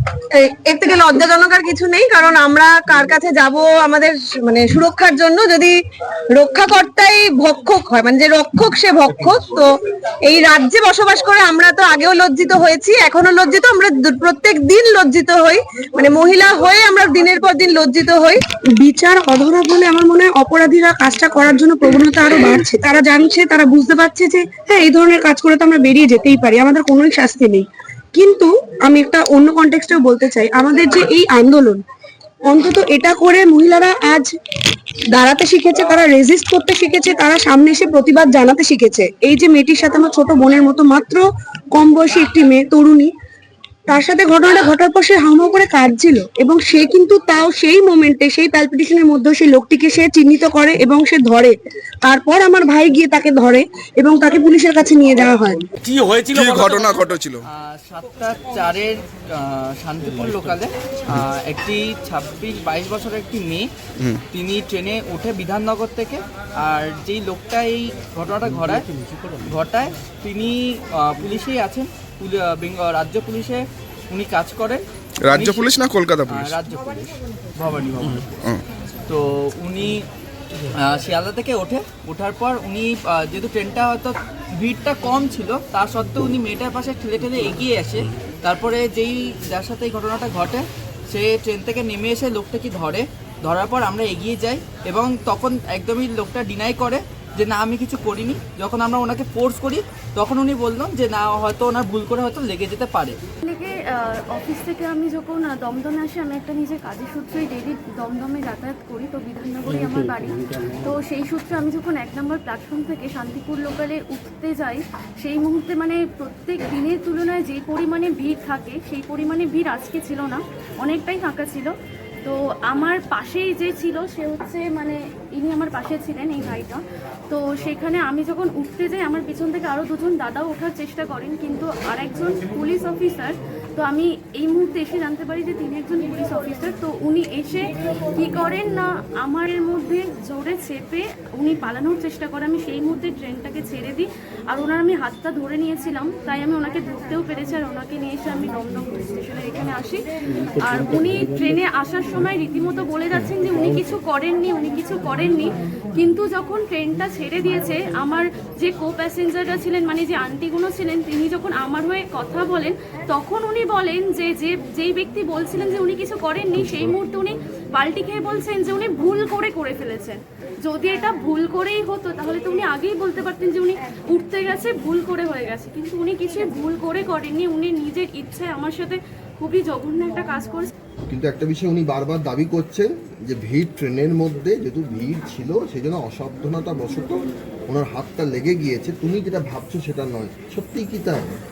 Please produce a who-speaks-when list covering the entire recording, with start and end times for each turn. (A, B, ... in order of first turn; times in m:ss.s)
0:00.3-0:05.8 A
0:06.3-0:18.4 A
0:18.8-0:31.8 B
0:32.5-0:34.3 B
0:35.1-0:41.2 B
0:41.7-0:43.1 B
0:43.9-0:55.6 B
0:55.9-0:57.0 C
0:56.3-0:57.4 D
0:57.5-1:03.7 C
1:04.3-1:18.3 C
1:15.2-1:16.6 D
1:19.1-1:20.1 C
1:20.7-1:43.2 C
1:43.4-2:01.7 E
2:02.2-3:00.7 E
3:01.1-3:11.4 F